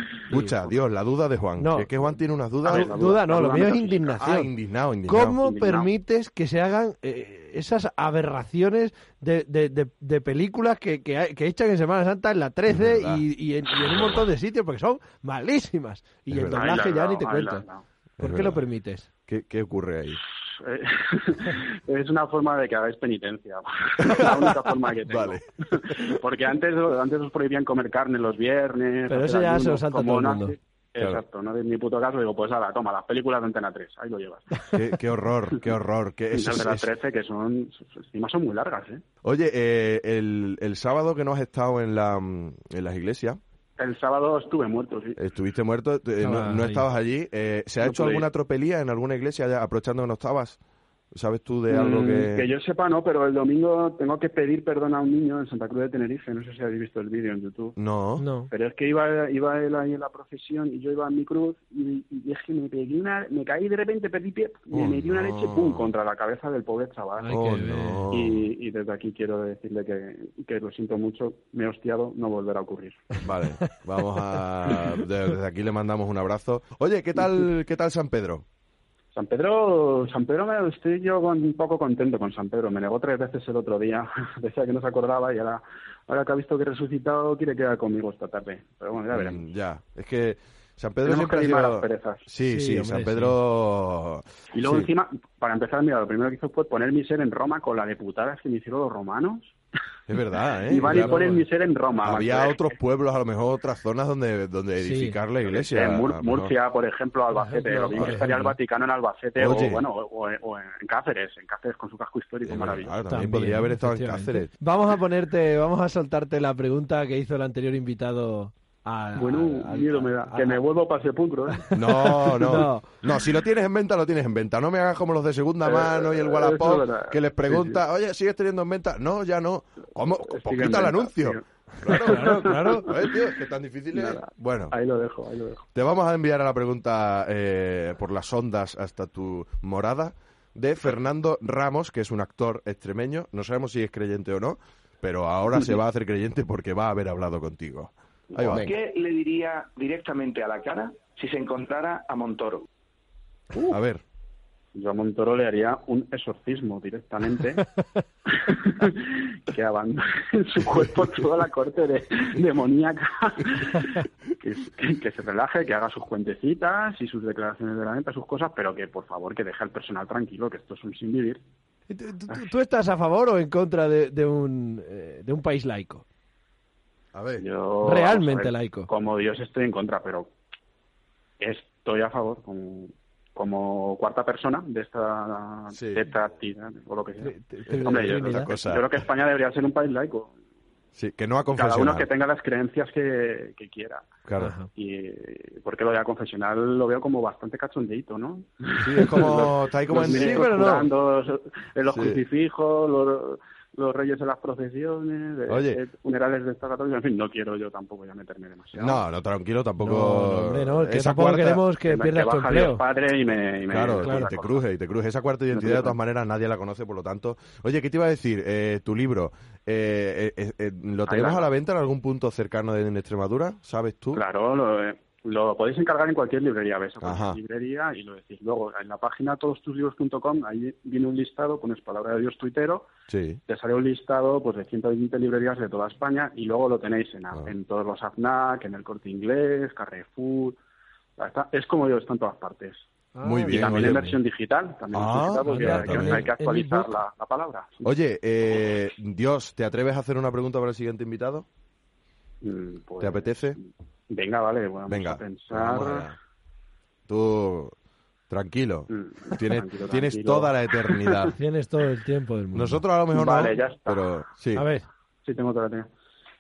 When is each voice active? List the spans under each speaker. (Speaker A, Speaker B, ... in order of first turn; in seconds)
Speaker A: 0.3-0.6, 1.6-1.9, 2.7-4.5, 5.1-17.6, 18.2-19.1, 29.1-30.6, 46.2-46.8, 58.2-58.5, 67.2-68.1, 92.4-93.4, 100.8-101.4, 104.8-105.2, 107.4-108.5, 113.1-120.6, 121.5-123.2, 131.9-132.9, 171.9-176.0, 177.8-178.9, 187.2-188.5, 194.4-194.7, 199.9-200.9, 209.8-212.8, 214.0-214.3, 243.2-244.2, 245.4-247.0, 261.3-262.8, 264.5-264.9
Speaker B: 0.3-2.9, 4.2-5.4, 12.7-13.2, 13.8-14.3, 16.3-16.7, 18.2-18.6, 19.3-20.2, 24.2-24.5, 25.1-25.5, 34.7-36.9, 39.2-43.4, 45.2-50.6, 51.1-52.5, 57.8-58.2, 64.7-65.9, 67.3-68.4, 73.2-78.5, 89.1-94.9, 100.1-101.3, 102.0-106.5, 109.4-109.8, 112.5-114.5, 121.7-134.7, 135.8-148.7, 153.7-154.0, 177.1-177.5, 185.7-186.0, 187.7-188.9, 190.9-192.1, 194.2-194.5, 198.8-200.7, 201.9-202.2, 205.5-205.8, 208.8-211.6, 213.7-224.2, 227.0-227.4, 233.1-233.4, 243.2-244.1, 244.9-246.3, 247.8-251.5, 253.0-253.6, 254.9-256.2, 257.1-257.7, 258.3-261.4, 262.5-264.7
Speaker C: 2.6-4.2, 5.3-5.9, 16.5-17.8, 20.6-34.7, 36.3-39.0, 43.8-45.2, 47.8-48.3, 51.7-57.8, 58.5-67.4, 68.1-73.1, 79.1-89.5, 91.0-92.3, 94.5-99.5, 100.7-102.7, 105.5-113.0, 119.2-121.6, 125.6-127.8, 130.0-132.7, 133.9-135.7, 154.8-157.7, 158.3-171.4, 177.4-180.3, 181.4-190.3, 191.5-194.1, 194.7-209.0, 211.9-214.6, 215.5-216.0, 221.1-221.5, 224.1-232.9, 233.5-240.6, 241.2-242.8, 243.5-247.9, 252.4-256.1, 258.9-261.3, 263.1-264.2, 265.2-265.9
Speaker D: 148.4-152.7